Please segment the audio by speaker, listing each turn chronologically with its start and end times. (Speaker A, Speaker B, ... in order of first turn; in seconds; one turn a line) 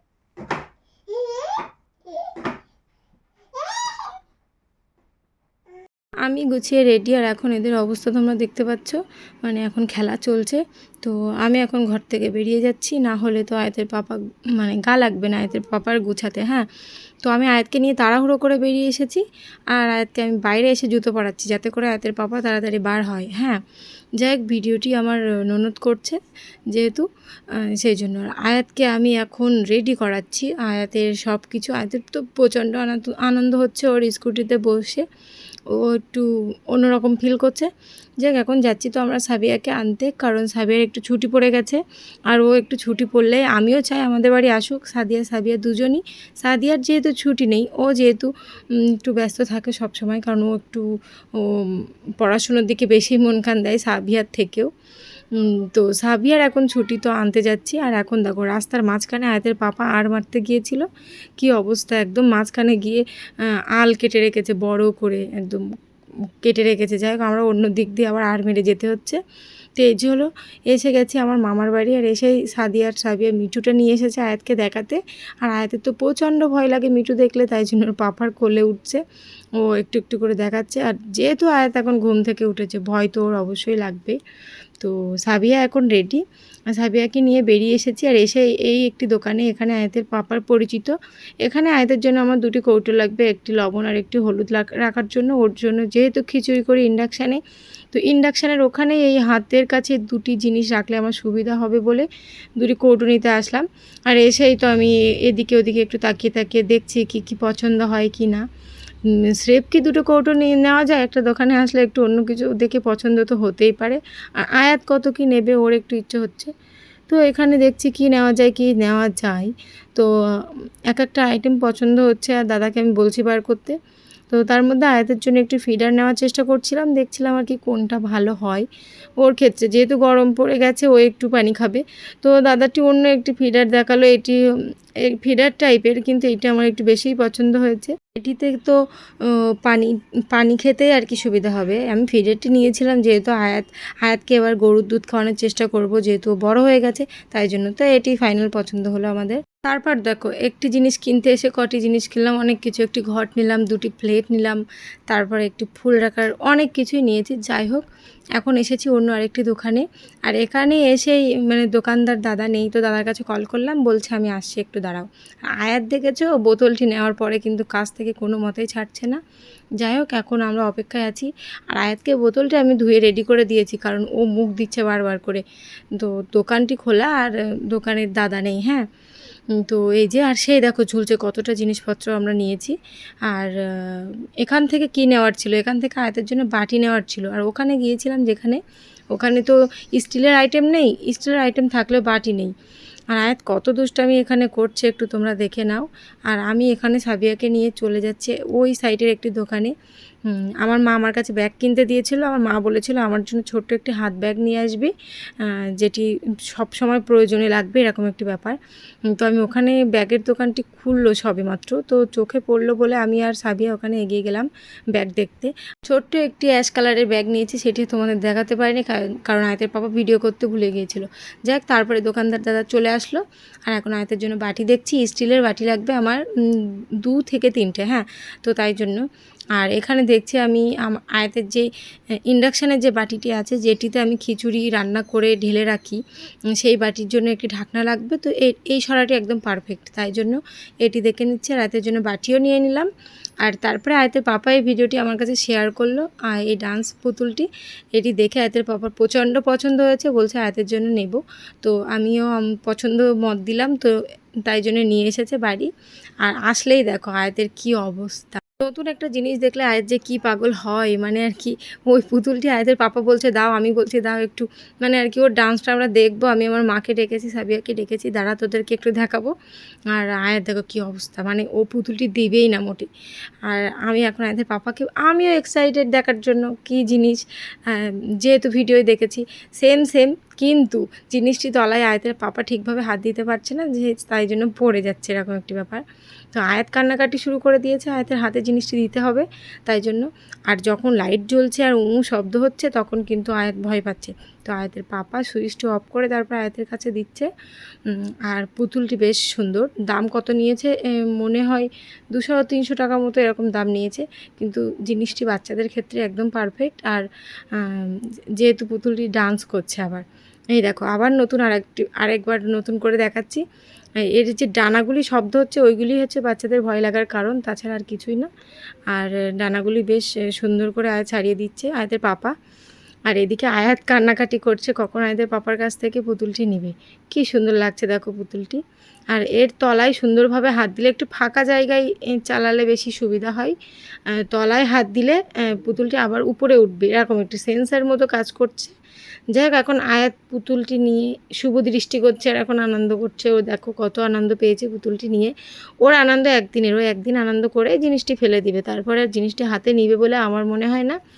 Speaker A: 6.2-16.7
Speaker A: 17.2-23.6
Speaker A: 24.2-26.2
Speaker A: 26.7-35.1
Speaker A: 35.7-37.7
Speaker A: 38.2-54.7
Speaker A: 55.3-65.7
Speaker A: 66.4-69.2
Speaker A: 69.8-79.0
Speaker A: 79.6-84.2
Speaker A: 84.8-108.5
Speaker A: 109.0-116.5
Speaker A: 117.1-123.8
Speaker A: 124.3-128.7
Speaker A: 129.2-134.4
Speaker A: 135.0-157.9
Speaker A: 158.4-169.2
Speaker A: 169.8-178.9
Speaker A: 179.5-192.5
Speaker A: 193.1-199.7
Speaker A: 200.2-208.6
Speaker A: 209.1-229.0
Speaker A: 229.6-231.7
Speaker A: 232.3-242.9
Speaker A: 243.4-255.7
Speaker A: 256.2-269.3
Speaker A: 269.9-272.9
Speaker A: 273.5-297.3
Speaker A: 297.9-313.4
Speaker A: 314.1-318.3
Speaker A: 318.9-322.3
Speaker A: 323.1-333.6
Speaker A: 334.1-338.7
Speaker A: 339.3-351.0